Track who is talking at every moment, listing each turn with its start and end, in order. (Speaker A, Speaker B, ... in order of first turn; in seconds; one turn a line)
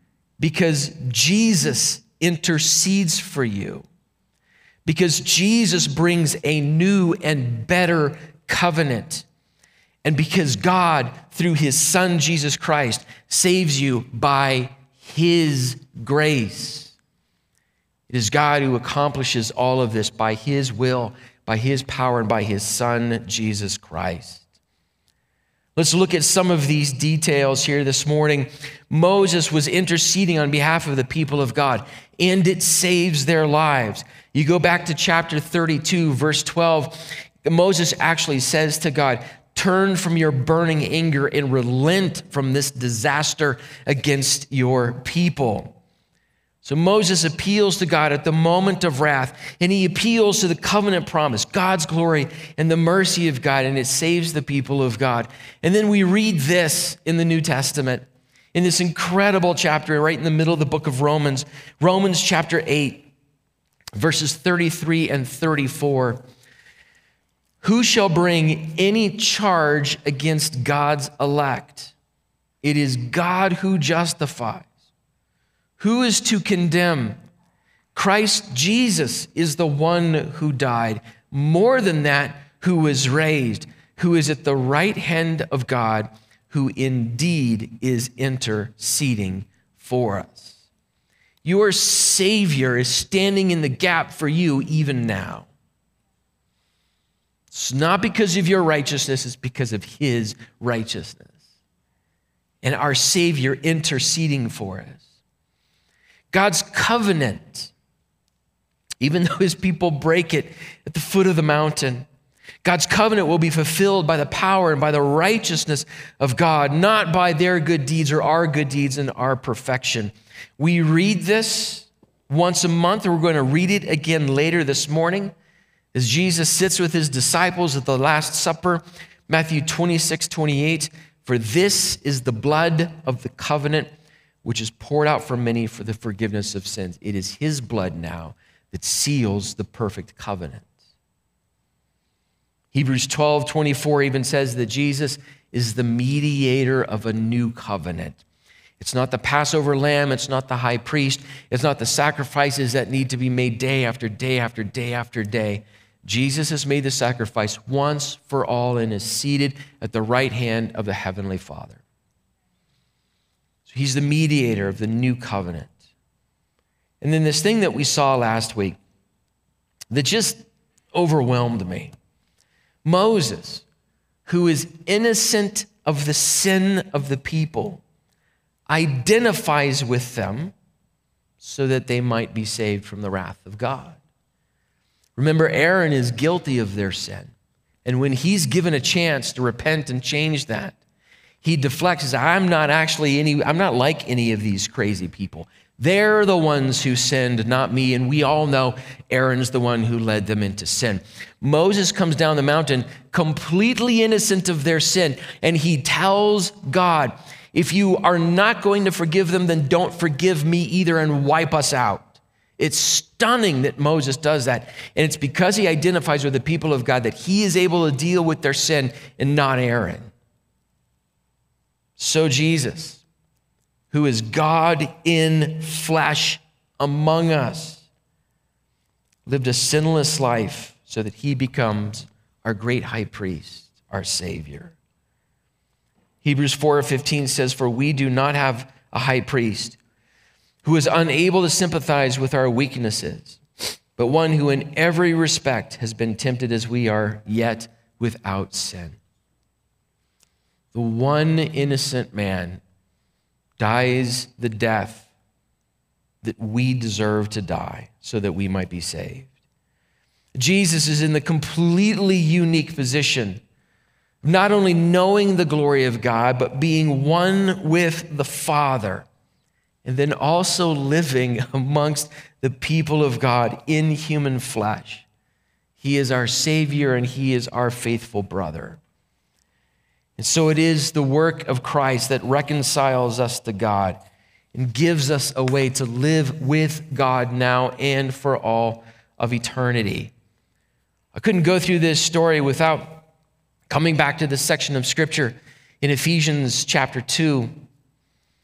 Speaker A: 0.4-3.9
Speaker A: 4.8-9.3
Speaker A: 10.0-16.9
Speaker A: 18.1-24.5
Speaker A: 25.8-45.8
Speaker A: 46.6-63.1
Speaker A: 64.0-66.2
Speaker A: 67.6-71.9
Speaker A: 72.6-74.7
Speaker A: 75.8-77.2
Speaker A: 77.9-90.6
Speaker A: 91.4-95.5
Speaker A: 97.5-101.3
Speaker A: 102.6-105.0
Speaker A: 106.3-107.7
Speaker A: 109.0-112.1
Speaker A: 112.6-125.3
Speaker A: 125.9-133.9
Speaker A: 134.4-140.7
Speaker A: 142.7-148.2
Speaker A: 148.8-161.8
Speaker A: 163.7-165.7
Speaker A: 167.0-168.8
Speaker A: 169.9-171.9
Speaker A: 172.8-173.7
Speaker A: 174.3-177.8
Speaker A: 178.7-180.5
Speaker A: 181.4-184.0
Speaker A: 185.2-187.3
Speaker A: 187.8-190.8
Speaker A: 191.4-220.1
Speaker A: 222.0-223.0
Speaker A: 223.9-227.8
Speaker A: 229.3-234.8
Speaker A: 236.2-239.8
Speaker A: 240.6-243.4
Speaker A: 244.0-249.0
Speaker A: 250.7-252.6
Speaker A: 253.6-255.1
Speaker A: 256.2-259.3
Speaker A: 260.4-263.4
Speaker A: 264.2-269.1
Speaker A: 269.9-275.1
Speaker A: 275.8-278.8
Speaker A: 280.2-284.0
Speaker A: 284.5-290.1
Speaker A: 291.1-293.1
Speaker A: 293.7-297.5